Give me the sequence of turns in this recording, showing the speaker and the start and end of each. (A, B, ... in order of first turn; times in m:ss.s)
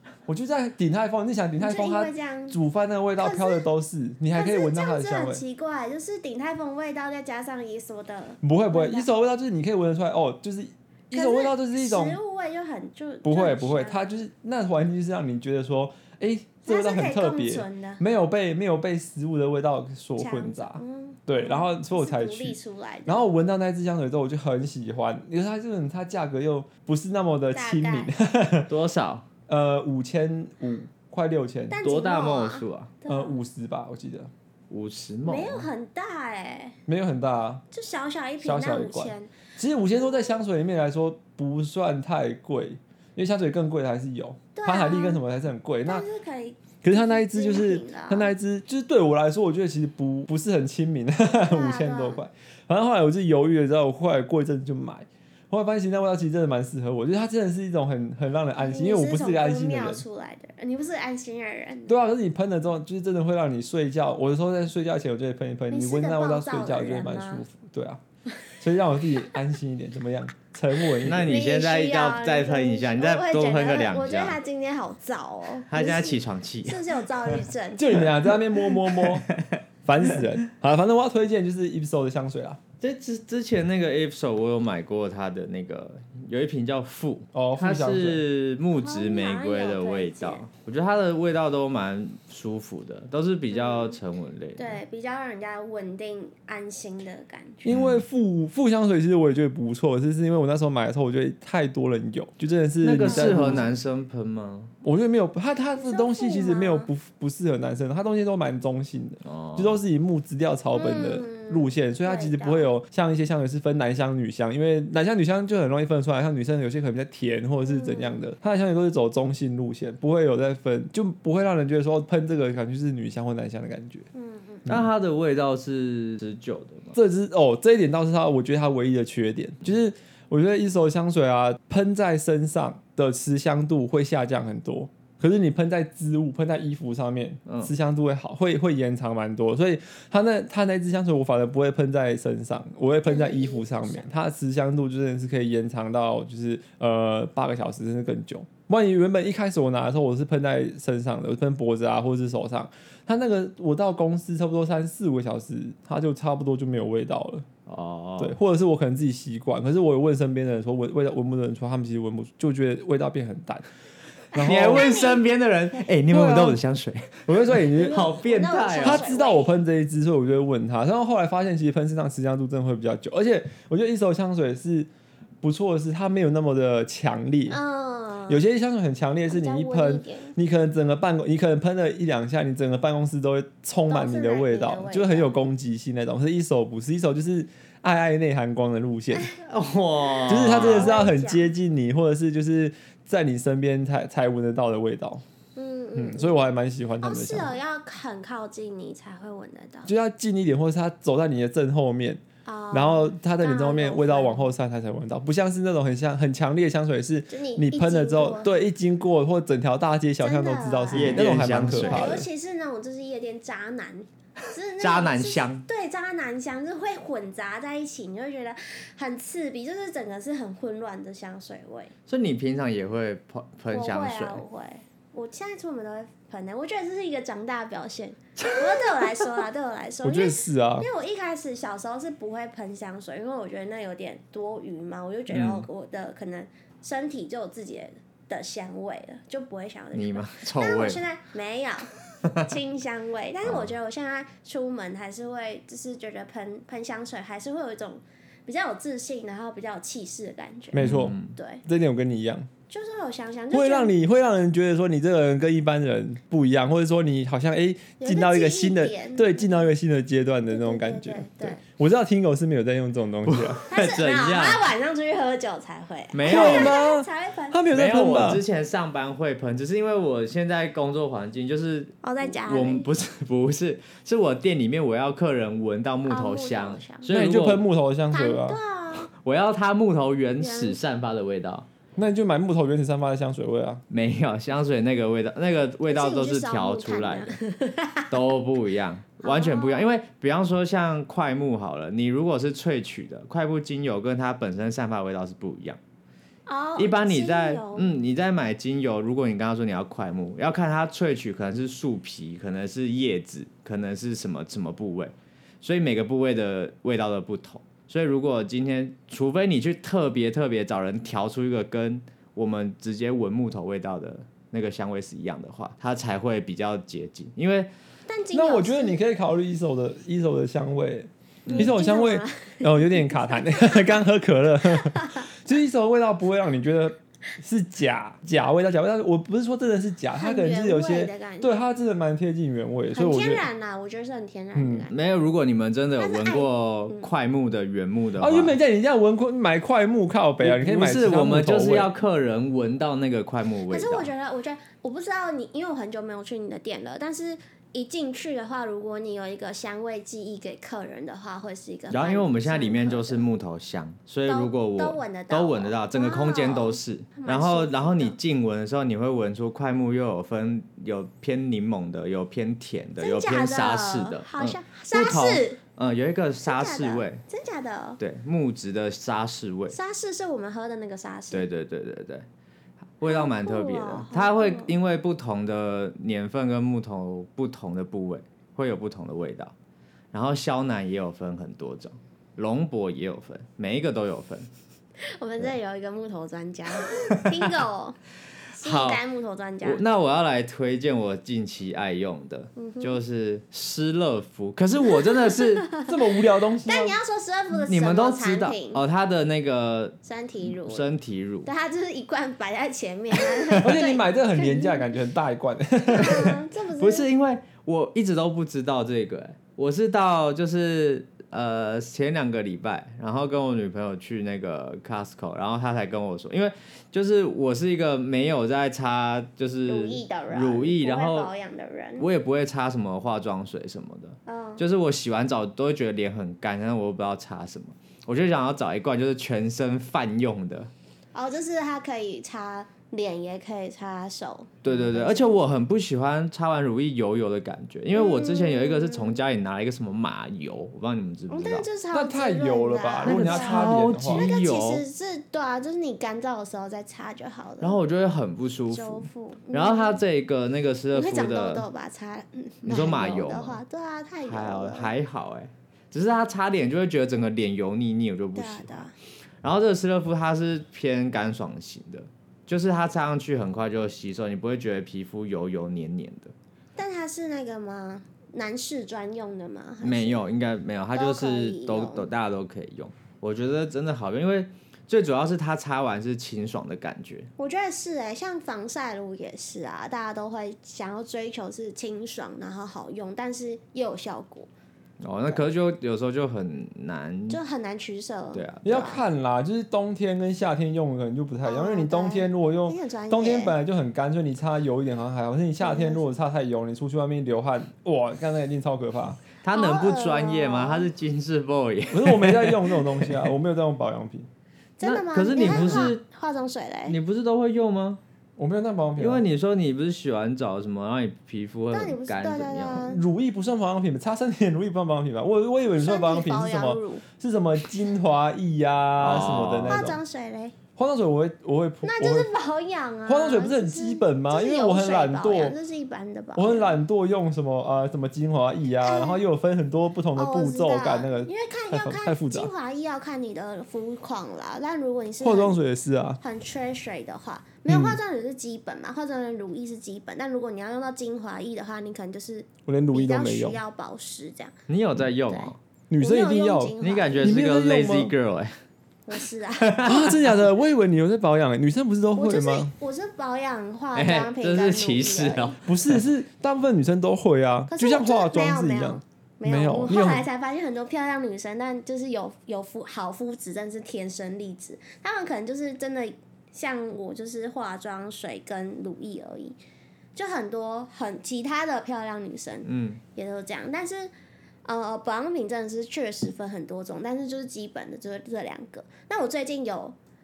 0:00.2-0:05.4 A
0:01.6-0:02.6 B
0:03.2-0:03.7 B
0:04.3-0:09.1 B
0:08.4-0:12.2 A
0:11.1-0:14.2 B
0:13.2-0:28.7 A
0:16.6-0:18.0 B
0:20.2-0:23.2 B
0:27.5-0:28.1 B
0:28.7-0:29.2 C
0:29.5-0:31.8 A
0:31.7-0:33.4 B
0:31.8-0:32.9 C
0:33.1-0:34.3 A
0:34.7-0:35.7 C
0:35.2-0:36.8 B
0:36.9-0:37.6 A
0:37.7-0:39.3 B
0:38.4-0:46.0 A
0:44.5-0:45.2 B
0:45.8-0:48.3 B
0:46.8-1:00.0 A
0:51.4-0:52.2 B
0:58.6-1:02.0 B
1:01.9-1:08.0 A
1:05.7-1:07.4 B
1:08.6-1:11.4 A
1:11.0-1:14.4 C
1:11.2-1:18.1 B
1:15.7-1:17.4 C
1:17.8-1:19.3 A
1:18.6-1:19.6 C
1:19.8-1:22.6 A
1:22.8-1:34.8 C
1:27.3-1:28.2 A
1:28.7-1:30.4 B
1:33.5-1:34.0 B
1:34.6-1:37.7 B
1:37.6-1:43.7 A
1:37.7-1:38.0 C
1:42.8-1:44.7 C
1:43.0-1:43.7 B
1:44.8-2:04.1 A
1:45.8-1:46.9 B
1:49.2-1:49.8 C
1:50.7-1:52.7 B
1:57.6-1:58.3 B
2:04.1-2:04.6 B
2:04.7-2:07.0 C
2:06.9-2:37.5 A
2:17.5-2:17.7 C
2:23.0-2:24.1 B
2:37.7-2:38.4 C
2:38.2-2:43.6 A
2:44.3-2:44.9 A
2:44.4-2:49.1 C
2:44.4-2:45.2 B
2:46.1-2:46.6 A
2:47.3-2:48.2 A
2:47.8-2:49.5 B
2:48.7-2:54.9 A
2:55.4-2:57.6 A
2:57.5-2:58.4 B
2:58.3-3:09.3 A
2:59.3-3:00.3 B
3:03.9-3:05.4 B
3:09.4-3:10.9 C
3:10.2-3:11.5 B
3:10.3-3:15.2 A
3:15.6-3:16.5 B
3:16.0-3:17.6 A
3:17.0-3:19.9 B
3:19.8-3:32.2 A
3:22.4-3:24.5 B
3:27.3-3:28.5 B
3:30.2-3:41.9 B
3:30.9-3:32.2 C
3:34.8-3:35.6 C
3:42.1-3:44.4 C
3:43.7-4:11.6 B
3:50.0-3:50.9 A
3:55.3-3:55.6 C
3:59.9-4:01.0 C
4:03.4-4:03.7 C
4:10.7-4:12.5 A
4:10.7-4:11.3 C
4:12.7-4:13.9 B
4:13.5-4:23.6 A
4:18.0-4:19.5 B
4:20.5-4:21.6 B
4:23.2-4:24.6 C
4:23.7-4:27.6 B
4:26.1-4:26.8 C
4:26.2-4:28.4 A
4:27.7-4:37.6 C
4:32.0-4:32.8 B
4:36.1-4:37.1 B
4:37.1-4:38.6 A
4:38.1-4:39.1 B
4:39.0-4:41.7 C
4:40.4-4:40.8 B
4:42.0-4:43.8 A
4:43.9-4:47.3 C
4:45.9-4:48.2 B
4:48.1-4:55.8 C
4:49.2-4:49.9 B
4:56.5-4:58.0 B
4:56.8-5:17.7 C
5:18.1-5:19.0 B
5:18.3-5:33.4 A
5:21.4-5:21.7 C
5:21.5-5:24.0 B
5:24.7-5:25.2 B
5:30.1-5:31.5 B
5:32.9-5:34.9 B
5:34.5-5:34.9 A
5:34.9-5:38.6 C
5:36.0-5:37.1 B
5:38.2-5:41.9 A
5:40.4-5:44.1 C
5:43.7-5:53.3 B
5:51.9-6:07.2 C
5:54.3-5:58.2 B
6:03.0-6:05.6 B
6:06.4-6:08.0 B
6:08.0-6:09.8 C
6:09.7-6:11.5 B
6:11.3-6:12.2 C
6:13.0-6:19.5 C
6:13.0-6:14.7 B
6:20.1-6:24.5 C
6:25.2-6:28.0 B
6:28.6-6:29.8 B
6:28.6-6:29.0 C
6:29.6-6:35.7 C
6:32.6-6:33.0 B
6:35.2-6:35.9 B
6:35.8-6:37.0 A
6:36.6-6:38.8 B
6:37.5-6:41.5 C
6:40.0-6:40.9 B
6:41.4-6:44.9 B
6:43.2-6:43.8 C
6:43.6-6:46.4 A
6:45.9-6:47.1 B
6:46.8-7:01.3 C
6:59.6-7:02.1 B
7:02.0-7:10.7 C
7:04.2-7:04.6 B
7:11.1-7:15.4 B
7:14.6-7:21.6 C
7:17.9-7:19.2 B
7:21.3-7:27.8 B
7:21.9-7:24.2 A
7:23.0-7:24.8 C
7:27.6-7:31.6 C
7:28.7-7:30.0 B
7:30.9-7:34.9 B
7:32.6-7:33.6 C
7:34.2-7:38.8 C
7:38.3-7:38.9 B
7:39.4-7:46.3 C
7:46.8-7:50.2 B
7:49.8-7:57.3 C
7:50.9-7:52.1 B
7:57.4-8:04.5 B
8:05.0-8:07.4 C
8:07.3-8:09.0 B
8:08.3-8:08.9 C
8:08.6-8:19.2 A
8:11.4-8:13.6 B
8:15.6-8:16.0 B
8:19.4-8:23.3 C
8:19.5-8:20.9 B
8:21.9-8:24.3 A
8:24.8-8:27.0 B
8:24.8-8:26.0 C
8:25.4-8:25.9 A
8:26.9-8:28.0 C
8:28.4-8:29.2 A
8:29.0-8:32.8 C
8:31.7-8:33.0 B
8:32.8-8:40.0 A
8:35.8-8:37.0 B
8:39.0-8:39.8 C
8:39.7-8:40.5 B
8:40.8-8:42.3 A
8:41.8-8:46.8 B
8:43.0-8:45.5 A
8:46.4-8:52.5 A
8:48.8-8:49.2 B
8:50.2-8:55.6 B
8:55.2-8:56.2 A
8:56.2-9:04.5 B
8:57.7-8:58.0 A
9:02.7-9:03.6 A
9:04.7-9:05.6 C
9:05.3-9:07.3 B
9:05.9-9:08.1 A
9:06.8-9:08.6 C
9:09.1-9:10.0 B
9:09.6-9:10.2 C
9:09.8-9:12.7 A
9:12.1-9:15.6 B
9:13.9-9:15.8 C
9:15.6-9:20.2 A
9:17.7-9:29.6 B
9:30.2-9:34.1 B
9:32.6-9:33.0 C
9:34.6-9:40.0 B